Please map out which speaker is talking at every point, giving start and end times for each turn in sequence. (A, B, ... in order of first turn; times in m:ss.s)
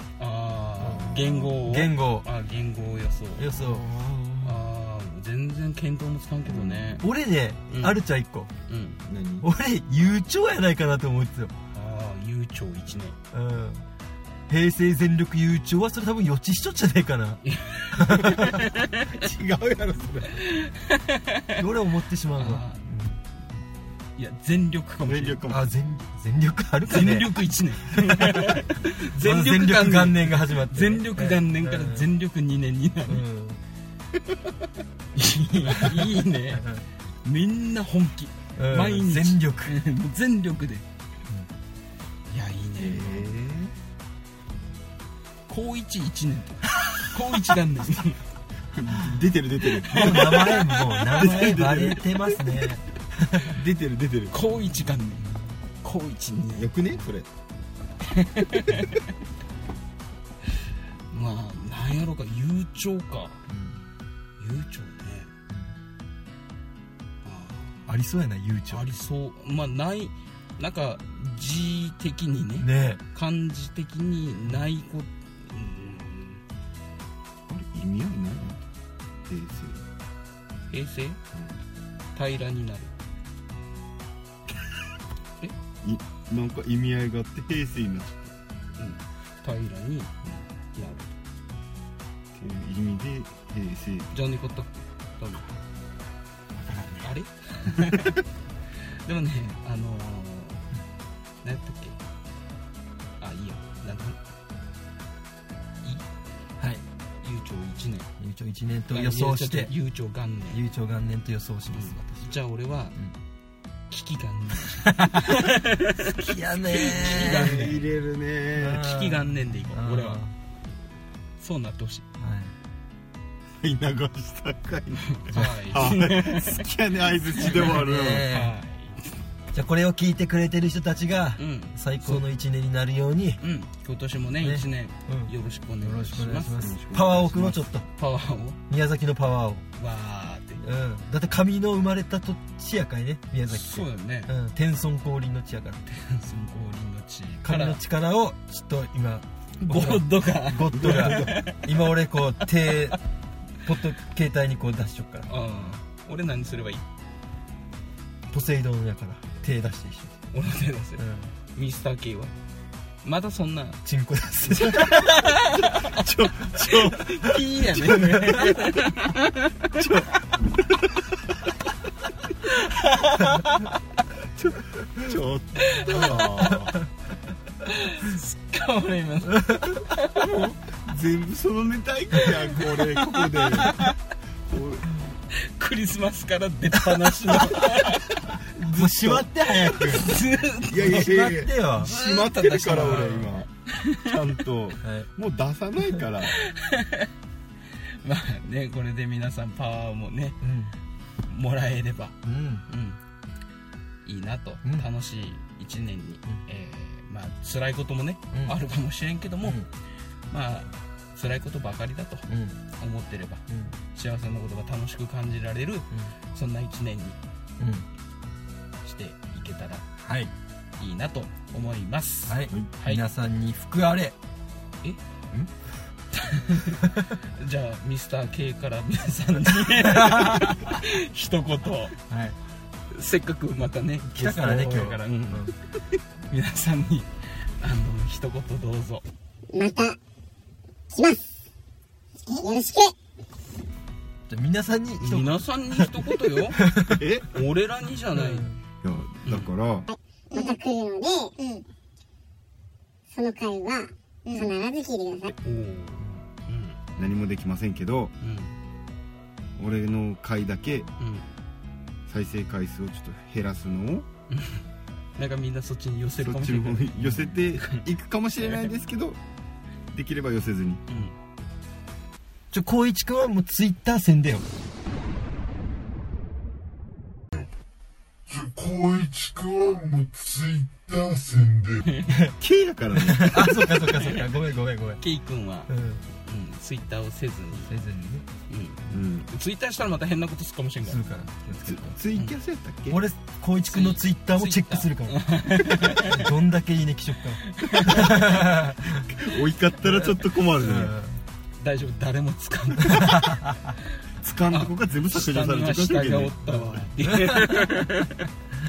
0:00.2-0:03.7 A
0:00.8-0:02.3 B
0:00.8-0:01.6 C
0:03.4-0:04.6 B
0:04.4-0:07.1 A
0:06.5-0:07.0 C
0:07.0-0:08.5 B
0:07.7-0:08.0 A
0:08.7-0:09.0 A
0:09.0-0:09.5 C
0:09.4-0:11.5 B
0:11.7-0:13.2 A
0:13.3-0:13.8 B
0:14.5-0:18.6 B
0:17.4-0:19.2 A
0:19.0-0:20.4 C
0:20.4-0:21.6 A
0:21.6-0:23.2 B
0:22.4-0:22.8 A
0:24.2-0:25.4 A
0:25.0-0:25.6 C
0:25.5-0:27.3 B
0:26.9-0:33.2 A
0:27.8-0:32.1 B
0:33.0-0:33.6 B
0:35.1-0:36.7 A
0:35.7-0:36.8 B
0:37.2-0:40.8 A
0:38.6-0:39.8 B
0:42.3-0:43.3 A
0:42.8-0:43.7 C
0:45.5-0:48.2 A
0:48.7-0:50.6 C
0:49.6-0:51.7 A
0:49.9-0:53.6 B
0:51.2-0:52.4 C
0:53.4-0:54.3 C
0:54.3-0:56.7 A
0:56.6-0:57.3 C
0:58.0-0:59.0 A
1:01.1-1:03.4 A
1:03.5-1:03.8 B
1:04.4-1:05.3 A
1:07.2-1:07.8 A
1:07.8-1:08.9 B
1:08.7-1:16.4 A
1:12.6-1:13.0 B
1:17.5-1:18.6 C
1:19.3-1:19.8 C
1:20.7-1:21.2 A
1:22.1-1:22.9 A
1:25.8-1:28.3 C
1:28.8-1:30.1 A
1:30.7-1:31.1 A
1:32.3-1:34.1 C
1:34.1-1:35.5 A
1:36.6-1:37.1 C
1:37.0-1:38.2 A
1:39.0-1:40.7 A
1:41.4-1:42.0 A
1:43.2-1:44.2 A
1:47.2-1:48.1 A
1:48.2-1:49.7 B
1:48.9-1:50.6 A
1:50.5-1:52.3 B
1:51.7-1:53.0 A
1:53.9-1:56.2 A
1:54.8-1:55.4 B
1:56.1-1:57.6 B
1:56.7-1:57.8 A
1:56.9-1:58.9 C
1:58.6-2:00.3 B
1:58.7-2:00.2 A
2:01.4-2:02.0 A
2:02.2-2:02.5 B
2:03.6-2:08.3 C
2:05.1-2:06.6 A
2:05.3-2:05.6 B
2:07.4-2:07.8 A
2:07.4-2:08.5 B
2:08.3-2:09.2 A
2:09.5-2:13.4 B
2:11.4-2:12.2 A
2:13.4-2:16.6 A
2:14.4-2:17.8 B
2:16.6-2:17.6 C
2:17.3-2:18.6 A
2:18.7-2:19.6 B
2:19.8-2:20.6 A
2:20.6-2:25.8 B
2:23.5-2:24.3 A
2:25.9-2:27.8 A
2:27.4-2:33.0 B
2:29.6-2:31.7 A
2:30.7-2:31.4 C
2:33.6-2:35.3 B
2:35.3-2:36.8 A
2:38.3-2:40.1 B
2:40.3-2:41.0 A
2:41.0-2:41.3 B
2:41.5-2:42.3 A
2:43.0-2:43.8 A
2:43.8-2:45.1 B
2:44.5-2:46.0 A
2:44.6-2:45.0 C
2:45.7-2:47.3 C
2:46.6-2:49.8 A
2:47.7-2:48.8 B
2:49.8-2:50.1 C
2:50.7-2:51.0 C
2:52.4-2:53.7 A
2:54.4-2:56.8 C
2:55.6-2:56.5 A
2:57.6-3:00.5 A
2:59.4-2:59.8 B
3:00.7-3:03.9 C
3:02.2-3:04.0 A
3:04.5-3:04.9 C
3:05.3-3:08.1 A
3:07.3-3:07.6 B
3:08.6-3:10.2 B
3:08.7-3:14.1 A
3:08.8-3:09.2 C
3:10.6-3:16.4 C
3:10.7-3:11.9 B
3:14.8-3:15.1 B
3:16.3-3:17.1 A
3:17.7-3:20.4 A
3:20.4-3:20.7 B
3:21.3-3:23.0 A
3:22.2-3:22.6 B
3:24.0-3:29.6 A
3:29.4-3:29.7 B
3:30.3-3:37.2 A
3:32.3-3:32.6 B
3:33.5-3:33.8 B
3:37.6-3:37.8 B
3:38.8-3:39.8 A
3:40.0-3:40.3 B
3:40.8-3:43.0 A
3:42.3-3:44.2 B
3:46.1-3:51.9 A
3:49.8-3:50.8 B
3:52.1-3:52.4 B
3:52.9-3:55.6 A
3:54.0-3:55.5 B
3:56.3-3:59.0 A
3:59.5-4:00.0 D
4:00.9-4:01.2 D
4:02.3-4:02.9 D
4:04.3-4:07.0 B
4:05.0-4:06.6 A
4:06.9-4:07.3 C
4:07.3-4:08.5 A
4:08.1-4:08.6 B
4:08.8-4:09.9 C
4:09.2-4:09.5 A
4:09.9-4:11.6 D
4:13.1-4:15.3 D
4:15.4-4:16.8 A
4:17.0-4:18.1 C
4:18.2-4:18.5 A
4:19.6-4:20.9 C
4:21.0-4:21.3 A
4:22.1-4:24.1 C
4:24.3-4:24.6 A
4:25.2-4:27.8 A
4:26.2-4:29.2 C
4:29.9-4:30.8 C
4:30.9-4:31.1 A
4:32.5-4:34.4 B
4:38.3-4:41.9 E
4:41.8-4:42.2 A
4:42.1-4:42.3 B
4:42.4-4:43.7 C
4:43.0-4:45.0 B
4:43.8-4:44.3 A
4:45.0-4:47.7 A
4:45.7-4:46.0 B
4:47.6-4:48.2 B
4:48.5-4:51.0 A
4:48.9-4:49.3 C
4:50.8-4:52.0 B
4:51.6-4:53.0 C
4:52.9-4:55.2 B
4:53.7-4:56.3 A
4:55.7-4:59.1 B
4:57.4-4:58.4 A
4:58.9-5:00.9 C
4:59.8-5:01.2 B
5:01.6-5:03.5 A
5:02.8-5:03.7 B
5:04.2-5:06.6 C
5:04.5-5:08.3 A
5:06.5-5:07.7 B